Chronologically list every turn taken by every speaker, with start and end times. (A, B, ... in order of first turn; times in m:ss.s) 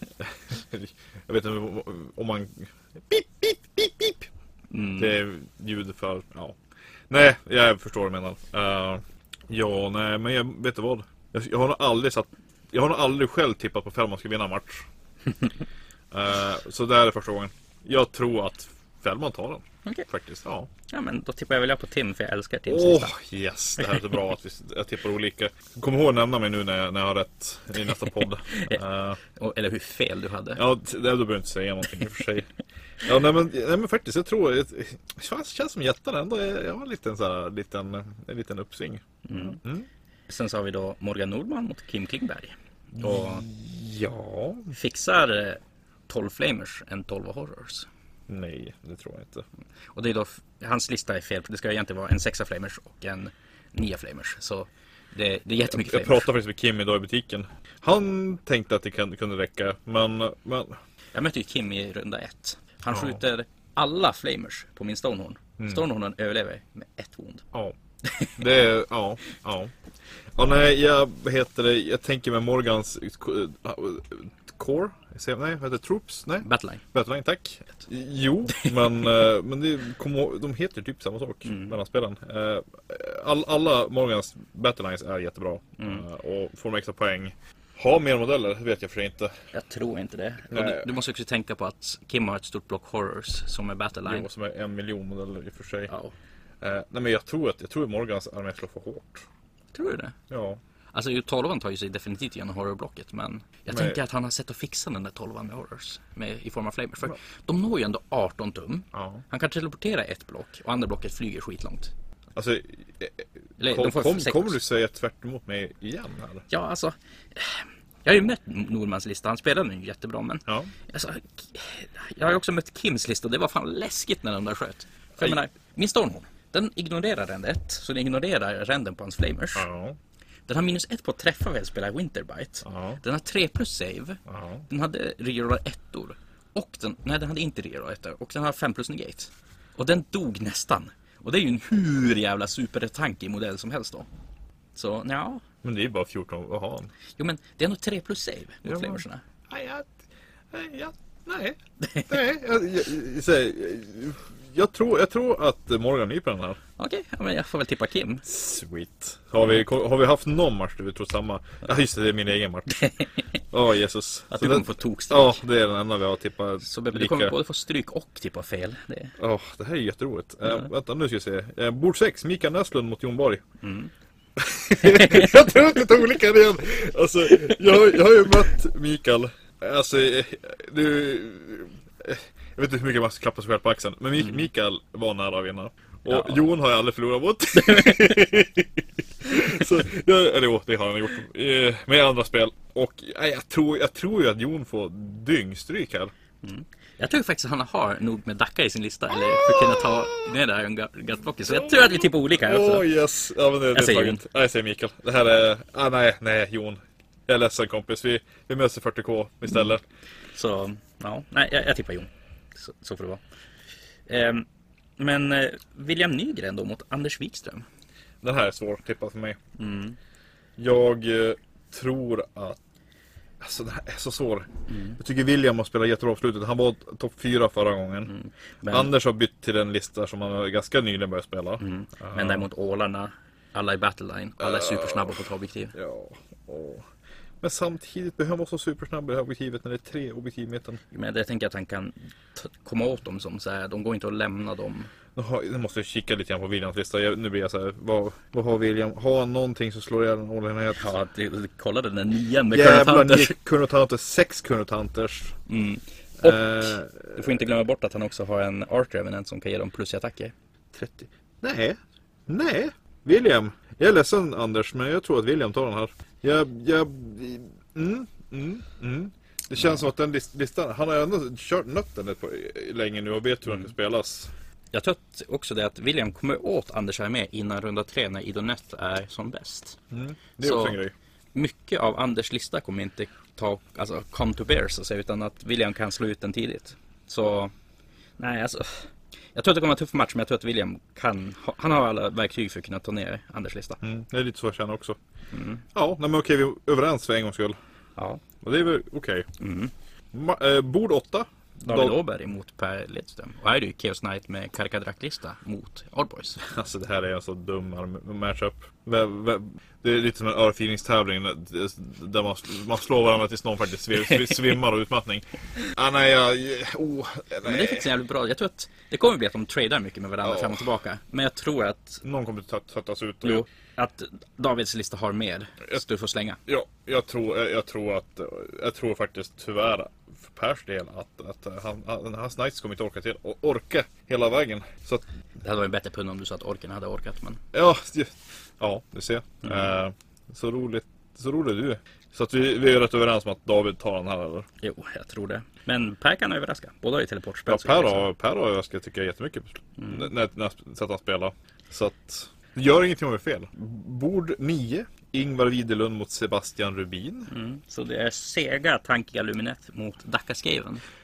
0:00.2-0:04.3 A
0:04.7-0:05.2 B
0:05.0-0:14.9 A
0:16.1-0:20.7 A
0:20.9-0:23.2 B
0:22.7-0:29.2 A
0:23.8-0:24.1 B
0:27.9-0:30.6 B
0:30.6-0:32.5 A
0:33.0-0:39.9 A
0:39.3-0:39.6 B
0:40.3-0:43.4 B
0:42.9-0:44.7 A
0:44.7-0:47.9 B
0:48.3-0:49.5 A
0:50.0-0:56.3 B
0:55.6-1:00.8 A
1:01.1-1:07.5 B
1:02.9-1:03.2 A
1:08.0-1:08.5 B
1:08.4-1:09.7 A
1:10.4-1:29.5 A
1:16.4-1:16.8 B
1:18.5-1:18.9 B
1:21.4-1:21.8 B
1:25.8-1:26.0 B
1:29.5-1:34.3 B
1:30.5-1:30.9 A
1:34.0-1:35.9 A
1:35.9-1:36.1 B
1:36.6-1:39.3 A
1:39.7-1:40.2 B
1:40.3-1:40.6 A
1:40.9-1:51.9 B
1:43.7-1:44.0 A
1:48.9-1:49.2 A
1:52.4-1:56.5 A
1:53.6-1:54.6 B
1:56.5-2:09.7 B
2:09.6-2:10.0 A
2:10.5-2:24.1 B
2:12.6-2:13.0 A
2:14.3-2:14.6 A
2:24.8-2:25.4 B
2:25.6-2:26.9 A
2:27.2-2:29.2 B
2:28.6-2:30.0 A
2:30.5-2:36.6 A
2:31.8-2:32.1 B
2:36.8-2:38.2 B
2:38.3-2:42.8 A
2:42.8-2:43.3 B
2:43.5-2:47.3 A
2:44.3-2:45.4 B
2:46.6-2:49.2 B
2:49.2-2:53.4 A
2:53.6-2:53.9 B
2:54.4-3:16.1 A
2:54.8-2:55.5 B
3:06.1-3:06.5 B
3:07.6-3:08.1 B
3:16.4-3:22.9 B
3:19.6-3:19.9 A
3:21.4-3:29.8 A
3:23.7-3:24.2 B
3:30.3-3:33.2 B
3:34.1-3:34.5 B
3:35.0-3:37.7 B
3:38.2-3:39.4 A
3:39.6-3:40.0 B
3:40.6-3:42.6 A
3:43.4-3:48.1 A
3:44.7-3:45.0 B
3:48.1-3:48.9 B
3:48.7-3:52.4 A
3:51.6-3:55.8 B
3:54.4-3:56.9 A
3:57.4-4:00.8 A
4:00.9-4:04.9 B
4:05.2-4:10.9 A
4:10.8-4:13.4 B
4:12.5-4:15.4 A
4:15.5-4:21.1 B
4:16.2-4:17.4 A
4:21.4-4:34.3 A
4:34.7-4:39.8 B
4:39.9-4:40.9 A
4:40.4-4:40.8 B
4:41.3-4:47.5 B
4:48.2-4:53.8 B
4:53.8-4:55.0 A
4:55.3-4:55.6 B
4:55.7-4:57.6 A
4:58.0-4:58.2 B
4:58.4-4:59.3 A
4:59.4-4:59.7 B
5:00.1-5:02.0 A
5:01.6-5:06.4 B
5:06.4-5:17.9 A
5:14.1-5:14.4 B
5:17.4-5:22.0 B
5:20.2-5:20.7 A
5:22.0-5:23.5 A
5:23.2-5:26.4 B
5:26.5-5:35.0 A
5:35.4-5:37.4 B
5:37.5-5:44.5 A
5:39.4-5:39.7 B
5:44.6-5:48.1 B
5:47.5-5:57.3 A
5:49.8-5:50.1 B
5:57.3-6:00.8 B